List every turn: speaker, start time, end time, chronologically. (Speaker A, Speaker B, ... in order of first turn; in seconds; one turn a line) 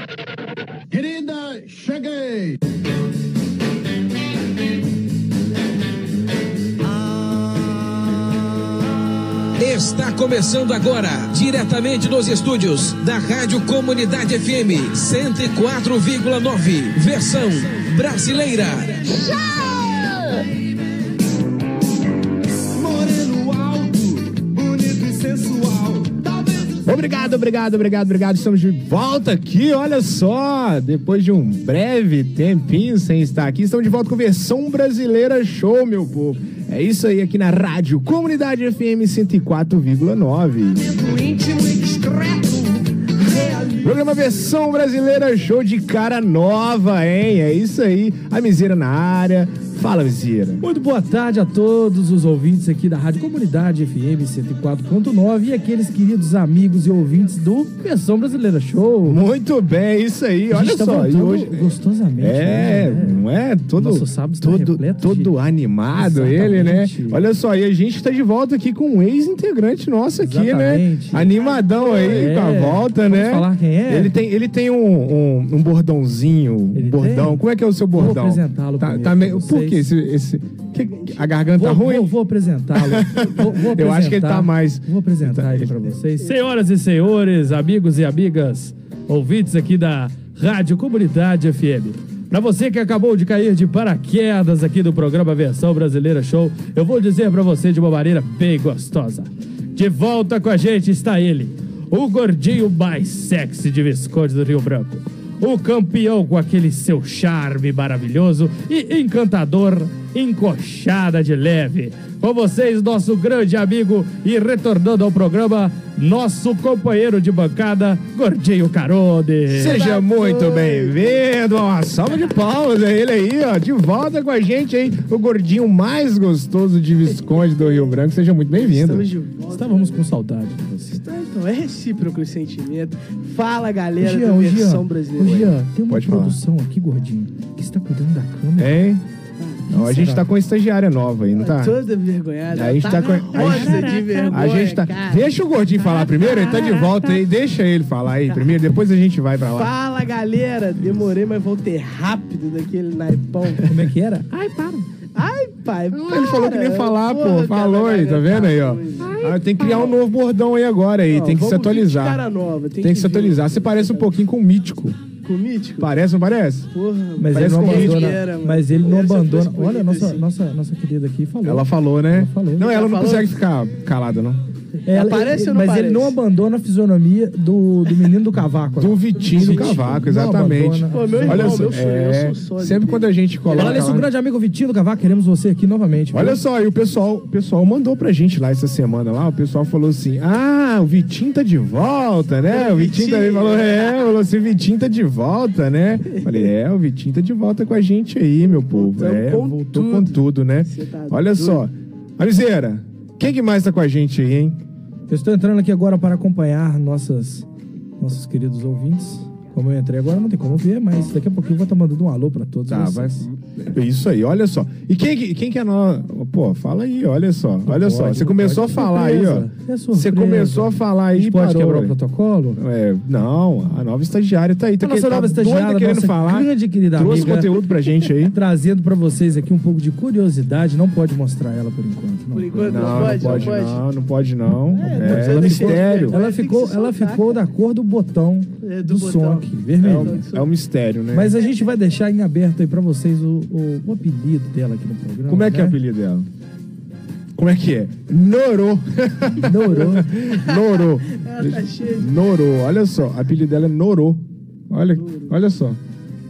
Speaker A: 0.9-2.6
Speaker B: 9.6-20.4
Speaker A: 22.7-26.8
Speaker C: 26.8-40.9
Speaker A: 40.8-43.8
Speaker C: 43.8-50.6
Speaker D: 50.6-59.2
Speaker C: 59.0-82.1
Speaker D: 60.5-63.2
Speaker D: 63.8-65.3
Speaker D: 65.9-67.2
Speaker D: 70.2-71.3
Speaker E: 71.3-72.3
Speaker D: 72.0-74.1
Speaker D: 76.7-79.8
Speaker E: 80.9-81.2
Speaker D: 81.5-119.8
Speaker C: 82.8-85.9
Speaker C: 119.5-129.1
Speaker E: 119.6-121.2
Speaker E: 127.1-128.0
Speaker E: 128.5-130.0
Speaker D: 129.5-131.0
Speaker E: 130.9-135.6
Speaker D: 134.0-138.8
Speaker C: 135.9-136.4
Speaker C: 138.6-139.0
Speaker D: 139.7-140.3
Speaker C: 139.7-141.8
Speaker E: 141.3-145.3
Speaker C: 142.5-149.8
Speaker D: 143.3-144.5
Speaker E: 146.2-146.6
Speaker D: 146.3-147.1
Speaker E: 148.3-148.5
Speaker E: 149.5-153.8
Speaker C: 150.8-151.1
Speaker D: 153.7-154.9
Speaker E: 155.1-159.9
Speaker C: 155.9-162.2
Speaker E: 161.1-164.1
Speaker C: 162.8-165.0
Speaker E: 165.2-165.9
Speaker C: 165.8-166.7
Speaker E: 166.7-170.2
Speaker D: 167.2-172.7
Speaker C: 167.3-168.2
Speaker C: 171.4-174.4
Speaker E: 172.6-173.3
Speaker D: 174.9-181.8
Speaker E: 174.9-176.2
Speaker C: 178.8-184.1
Speaker E: 179.4-179.7
Speaker E: 180.9-184.0
Speaker D: 183.5-186.4
Speaker C: 186.1-204.6
Speaker E: 192.5-194.0
Speaker E: 198.7-201.7
Speaker D: 205.1-207.4
Speaker D: 208.0-213.2
Speaker C: 212.7-222.0
Speaker D: 217.7-222.6
Speaker C: 222.6-228.4
Speaker D: 224.8-227.5
Speaker D: 228.3-233.5
Speaker E: 232.3-233.8
Speaker C: 232.7-236.2
Speaker E: 234.7-237.4
Speaker D: 234.9-240.2
Speaker E: 238.6-240.5
Speaker C: 239.8-241.4
Speaker D: 241.1-245.8
Speaker C: 245.3-246.3
Speaker C: 247.3-255.8
Speaker D: 249.4-250.1
Speaker E: 249.7-252.1
Speaker E: 255.0-255.3